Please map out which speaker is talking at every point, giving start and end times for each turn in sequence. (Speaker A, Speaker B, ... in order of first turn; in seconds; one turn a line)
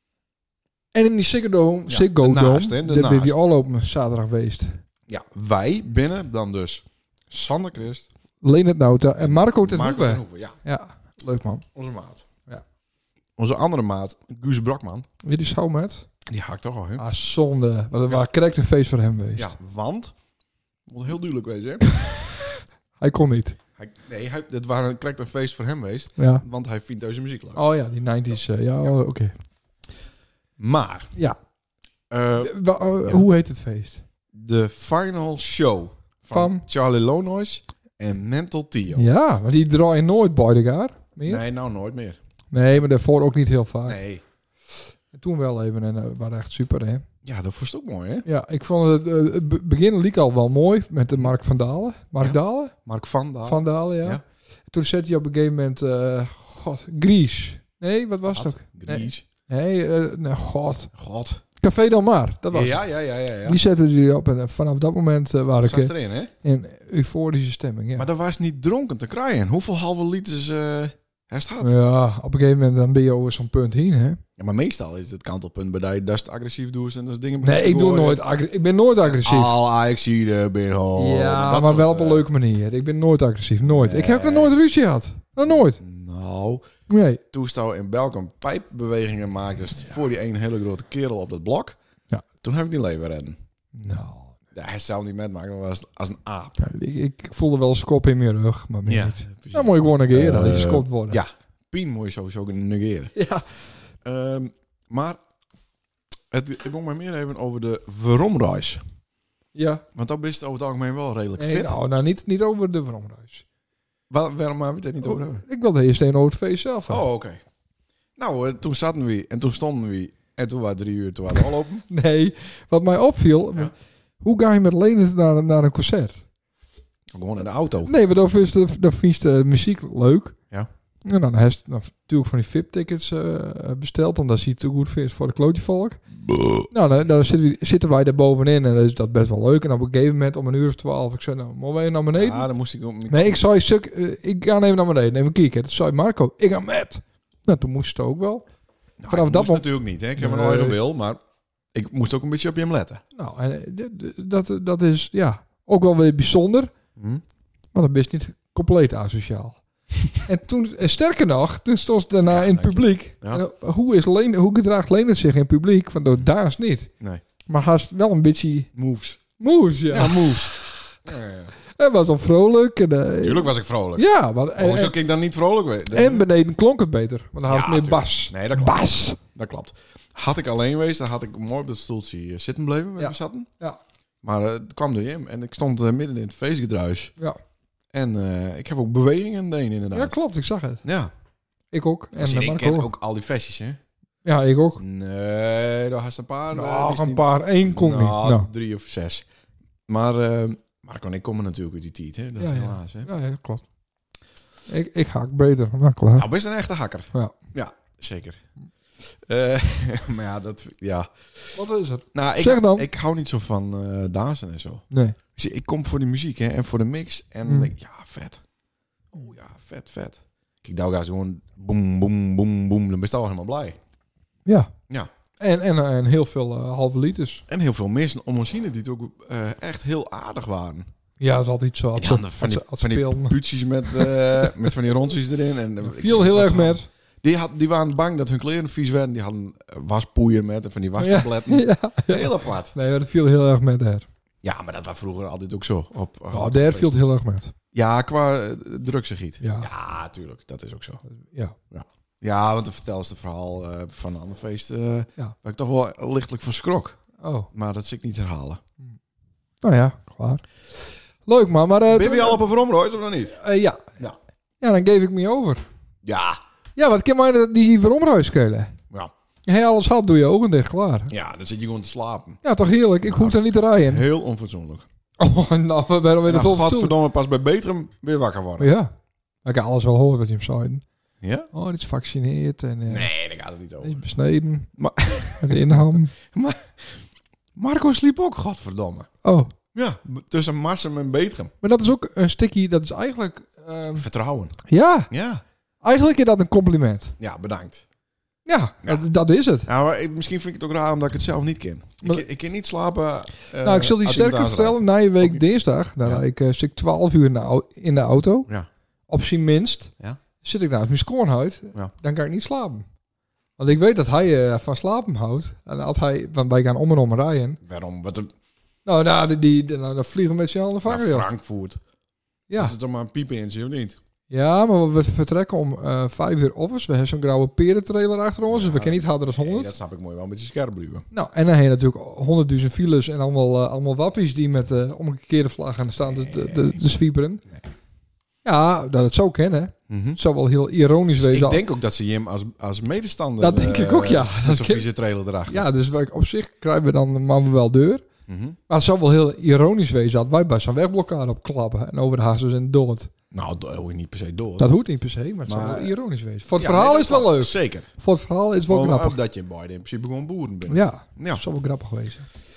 Speaker A: 0.9-4.8
Speaker B: 1.9-3.4
Speaker B: 5.1-8.1
Speaker A: 8.4-11.7
Speaker B: 9.2-10.6
Speaker B: 11.8-12.2
Speaker B: 13.4-15.1
Speaker A: 15.2-16.1
Speaker B: 16.3-17.1
Speaker A: 17.0-19.5
Speaker B: 19.4-20.1
Speaker B: 20.9-21.9
Speaker A: 21.9-23.6
Speaker B: 23.8-27.6
Speaker A: 26.2-26.4
Speaker A: 27.6-29.4
Speaker B: 30.6-31.1
Speaker B: 32.1-33.2
Speaker A: 32.4-34.0
Speaker B: 34.3-39.1
Speaker A: 36.3-36.6
Speaker A: 38.9-41.4
Speaker B: 41.2-42.2
Speaker A: 42.5-44.0
Speaker B: 43.9-44.2
Speaker A: 45.1-47.0
Speaker B: 47.2-48.3
Speaker A: 48.2-52.7
Speaker B: 52.2-54.2
Speaker A: 53.4-60.9
Speaker B: 58.3-59.2
Speaker B: 60.9-61.4
Speaker A: 61.6-62.8
Speaker B: 62.5-63.6
Speaker A: 63.5-68.1
Speaker B: 65.6-66.3
Speaker B: 68.0-71.8
Speaker A: 71.6-74.2
Speaker B: 74.4-78.2
Speaker A: 77.4-79.5
Speaker B: 79.0-82.3
Speaker A: 81.0-85.8
Speaker B: 83.6-84.6
Speaker B: 85.5-86.7
Speaker A: 86.9-87.2
Speaker B: 87.3-91.8
Speaker B: 92.4-93.4
Speaker A: 93.8-94.3
Speaker B: 94.5-96.6
Speaker A: 96.6-101.2
Speaker B: 98.9-103.1
Speaker A: 103.2-103.4
Speaker B: 104.0-105.2
Speaker B: 106.3-108.8
Speaker A: 109.5-109.8
Speaker B: 110.0-111.8
Speaker A: 111.4-113.4
Speaker B: 114.1-115.5
Speaker A: 115.0-117.0
Speaker B: 116.9-117.4
Speaker B: 118.2-121.8
Speaker A: 121.9-126.2
Speaker B: 127.1-128.0
Speaker A: 127.9-130.4
Speaker A: 131.1-136.0
Speaker B: 136.2-136.7
Speaker A: 136.7-142.5
Speaker B: 142.1-143.4
Speaker A: 143.1-148.4
Speaker B: 149.0-151.2
Speaker A: 149.1-150.8
Speaker B: 151.7-153.0
Speaker A: 153.2-156.7
Speaker B: 157.0-157.2
Speaker A: 157.7-159.6
Speaker A: 160.1-166.9
Speaker B: 162.3-163.4
Speaker A: 167.5-168.7
Speaker B: 168.7-169.2
Speaker A: 169.4-171.0
Speaker B: 169.9-170.5
Speaker B: 171.1-171.5
Speaker A: 171.7-175.0
Speaker B: 173.2-176.3
Speaker A: 175.9-179.2
Speaker B: 177.5-183.5
Speaker A: 183.0-183.8
Speaker B: 184.2-187.1
Speaker B: 187.9-190.2
Speaker A: 189.9-190.8
Speaker B: 190.8-191.1
Speaker A: 191.7-192.9
Speaker B: 192.2-193.8
Speaker A: 194.2-194.8
Speaker B: 194.8-199.3
Speaker A: 196.5-198.5
Speaker B: 199.9-203.1
Speaker A: 202.4-203.6
Speaker A: 204.7-206.3
Speaker B: 206.2-208.4
Speaker B: 209.0-211.6
Speaker A: 211.6-212.9
Speaker B: 212.1-218.4
Speaker A: 214.9-215.2
Speaker A: 217.5-217.7
Speaker B: 219.1-223.8
Speaker A: 224.5-224.7
Speaker A: 225.4-227.4
Speaker B: 227.5-230.9
Speaker A: 231.2-233.4
Speaker B: 232.0-242.7
Speaker A: 233.9-234.7
Speaker A: 235.8-236.9
Speaker A: 241.0-244.1
Speaker B: 244.4-247.0
Speaker A: 246.3-247.5
Speaker B: 247.7-251.0
Speaker A: 249.4-249.7
Speaker A: 251.1-251.6
Speaker B: 251.7-257.0
Speaker A: 257.2-257.5
Speaker B: 257.5-258.6
Speaker A: 259.6-260.4
Speaker A: 261.3-262.4
Speaker B: 261.9-263.4
Speaker A: 263.4-264.0
Speaker A: 264.6-265.6
Speaker B: 266.0-266.4
Speaker A: 266.8-268.8
Speaker A: 269.5-271.1
Speaker B: 271.1-272.4
Speaker A: 272.4-274.1
Speaker B: 273.0-274.9
Speaker A: 275.2-276.9
Speaker B: 276.3-278.7
Speaker A: 278.6-278.9
Speaker A: 279.4-280.8
Speaker B: 281.2-281.5
Speaker A: 281.5-283.1
Speaker B: 282.9-284.0
Speaker A: 283.8-284.7
Speaker B: 284.8-287.0
Speaker A: 285.4-286.1
Speaker B: 287.6-289.1
Speaker A: 289.2-289.5
Speaker B: 289.7-291.5
Speaker A: 291.6-294.1
Speaker B: 293.9-294.6
Speaker A: 294.7-295.1
Speaker B: 295.1-295.4
Speaker A: 295.8-297.1
Speaker B: 297.2-297.9
Speaker A: 298.5-299.7
Speaker B: 299.7-305.4
Speaker A: 303.6-308.5
Speaker A: 309.1-312.9
Speaker A: 313.6-317.6
Speaker B: 317.6-318.3
Speaker A: 318.9-321.3
Speaker B: 320.9-321.8
Speaker A: 322.5-322.8
Speaker B: 322.6-324.0
Speaker A: 324.3-329.8
Speaker B: 328.5-331.1
Speaker A: 331.1-337.4
Speaker B: 336.0-336.8
Speaker A: 338.4-341.6
Speaker B: 339.9-340.2
Speaker B: 341.2-345.7
Speaker A: 343.4-344.9
Speaker A: 345.5-348.0
Speaker B: 348.3-348.6
Speaker A: 348.7-353.1
Speaker B: 353.3-354.7
Speaker A: 354.6-359.2
Speaker B: 355.5-355.9
Speaker B: 356.6-357.9
Speaker B: 358.7-361.4
Speaker A: 360.7-362.3